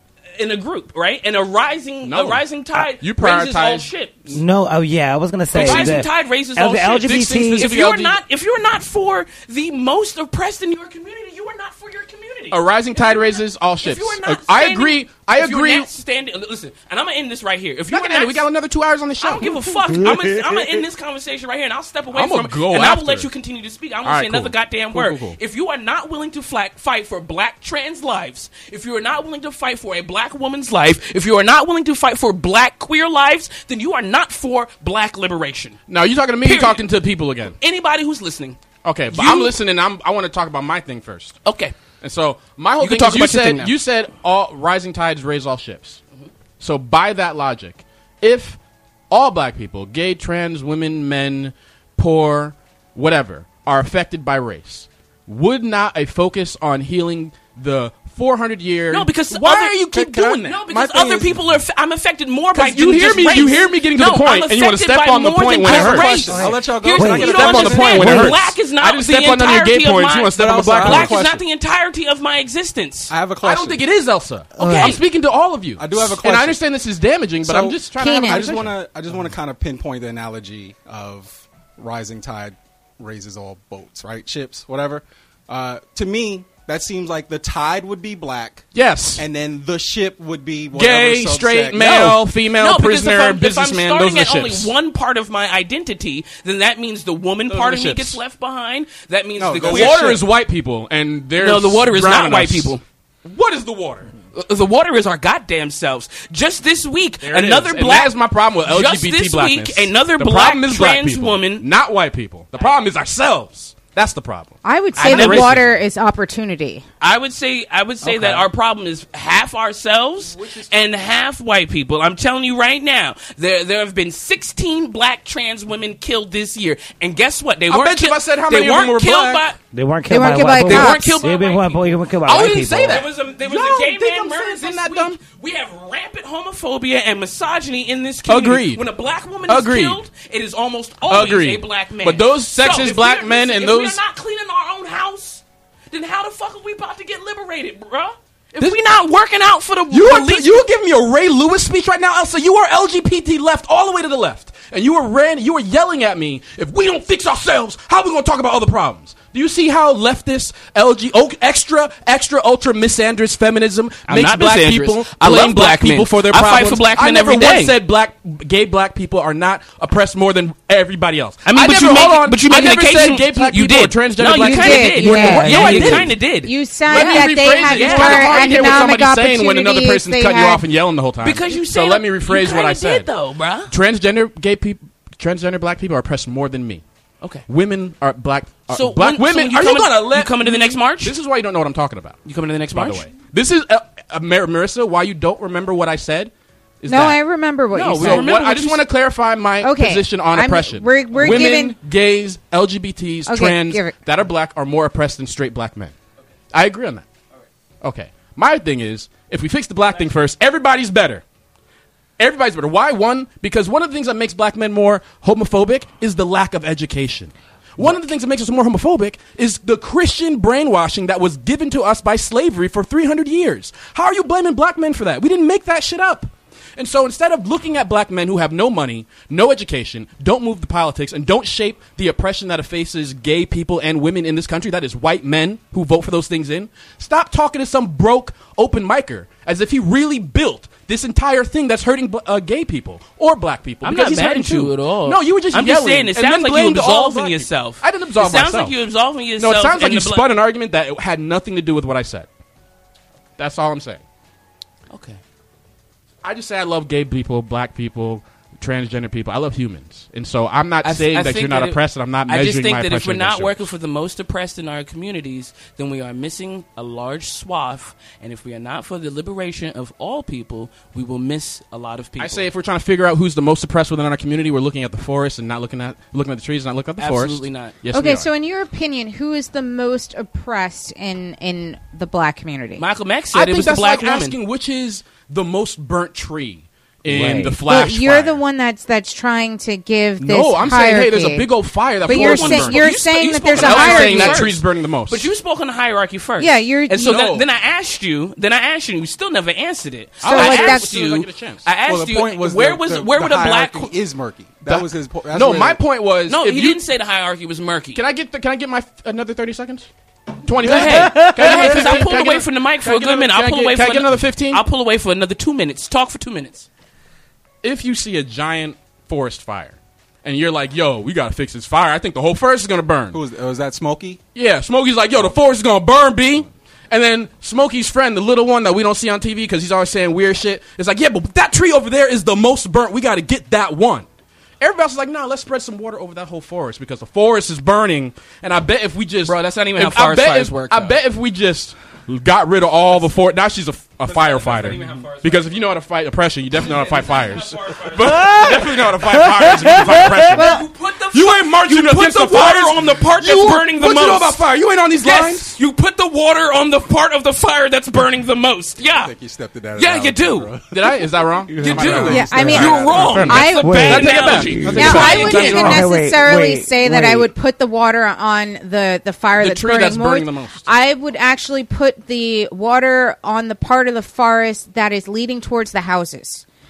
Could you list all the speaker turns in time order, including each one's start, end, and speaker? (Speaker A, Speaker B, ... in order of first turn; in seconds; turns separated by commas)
Speaker A: 0.3-4.2, Speaker B: 2.0-2.4, Speaker B: 3.0-4.4, Speaker C: 4.3-7.7, Speaker B: 5.5-6.0, Speaker A: 5.5-18.5, Speaker B: 7.0-8.2, Speaker B: 12.5-15.9, Speaker B: 17.9-19.6, Speaker A: 19.2-35.8, Speaker C: 19.9-20.8, Speaker B: 22.1-23.3, Speaker B: 24.0-25.4, Speaker B: 35.9-37.6, Speaker A: 36.4-36.9, Speaker A: 37.6-39.6, Speaker B: 38.8-41.4, Speaker A: 41.5-41.8, Speaker B: 42.0-46.0, Speaker A: 42.8-43.7, Speaker B: 46.6-48.6, Speaker B: 49.1-60.9, Speaker A: 58.9-73.1, Speaker D: 60.0-61.3, Speaker B: 62.5-66.4, Speaker D: 65.6-68.0, Speaker C: 66.3-68.4, Speaker B: 67.2-71.2, Speaker D: 70.3-71.4, Speaker D: 73.1-73.9, Speaker B: 73.4-79.2, Speaker C: 74.6-75.0, Speaker A: 74.6-75.0, Speaker D: 75.8-76.6, Speaker D: 77.4-92.1, Speaker E: 78.0-78.5, Speaker B: 88.7-89.2, Speaker B: 90.7-94.7, Speaker A: 91.8-100.2, Speaker B: 97.5-98.2, Speaker D: 99.4-100.2, Speaker B: 99.6-104.1, Speaker A: 101.4-102.8, Speaker A: 104.3-111.7, Speaker B: 107.2-115.7, Speaker E: 114.6-116.8, Speaker A: 115.0-115.6, Speaker A: 117.0-129.6, Speaker B: 118.0-118.4, Speaker B: 120.2-120.8, Speaker B: 127.7-129.5, Speaker C: 129.7-133.1, Speaker E: 130.1-131.2, Speaker A: 130.7-150.6, Speaker B: 130.7-131.0, Speaker B: 132.2-135.2, Speaker B: 138.3-138.8, Speaker B: 139.5-140.0, Speaker B: 141.1-144.0, Speaker B: 149.9-176.3, Speaker A: 164.1-167.8, Speaker A: 171.5-179.0, Speaker E: 174.3-175.6, Speaker C: 175.0-176.1, Speaker E: 176.3-180.6, Speaker B: 176.9-183.1, Speaker A: 181.2-183.7, Speaker B: 183.7-186.8, Speaker B: 187.5-192.2, Speaker A: 188.7-191.2, Speaker A: 192.3-193.1, Speaker B: 192.7-196.3, Speaker B: 196.8-197.2, Speaker E: 196.9-198.3, Speaker A: 197.7-198.9, Speaker B: 197.8-205.9, Speaker E: 199.6-201.8, Speaker A: 201.2-201.5, Speaker E: 203.3-203.9, Speaker B: 206.5-207.1, Speaker B: 207.8-211.2, Speaker B: 212.2-248.8, Speaker A: 243.8-250.3, Speaker B: 249.4-252.3, Speaker B: 253.4-254.0, Speaker A: 254.9-255.2, Speaker B: 256.2-263.6, Speaker A: 260.8-272.5, Speaker B: 272.2-278.3, Speaker A: 277.0-277.8, Speaker E: 277.9-282.8, Speaker A: 282.8-284.4, Speaker B: 283.3-288.4, Speaker C: 287.1-287.6, Speaker E: 287.7-291.5, Speaker B: 290.2-292.9, Speaker E: 292.1-294.5, Speaker A: 292.1-303.9, Speaker B: 293.5-295.3, Speaker E: 296.4-297.2, Speaker B: 297.0-297.4, Speaker B: 300.2-301.7, Speaker E: 300.3-300.9, Speaker D: 301.8-305.8, Speaker B: 304.6-306.8, Speaker A: 306.3-308.0, Speaker B: 307.9-309.9, Speaker B: 310.4-314.6, Speaker A: 310.6-316.7, Speaker C: 310.9-311.9, Speaker B: 317.6-323.2, Speaker D: 323.1-324.2, Speaker B: 324.4-334.1, Speaker B: 334.6-355.6, Speaker A: 339.2-341.0, Speaker A: 344.1-345.6, Speaker A: 346.6-348.8, Speaker C: 348.1-350.4, Speaker A: 349.5-354.4, Speaker E: 350.3-350.6, Speaker A: 355.0-359.1, Speaker D: 358.8-363.3, Speaker A: 359.8-360.6, Speaker B: 360.7-365.9, Speaker A: 361.6-365.9, Speaker E: 362.1-362.7, Speaker C: 363.1-367.3, Speaker E: 363.3-376.4, Speaker B: 369.4-370.7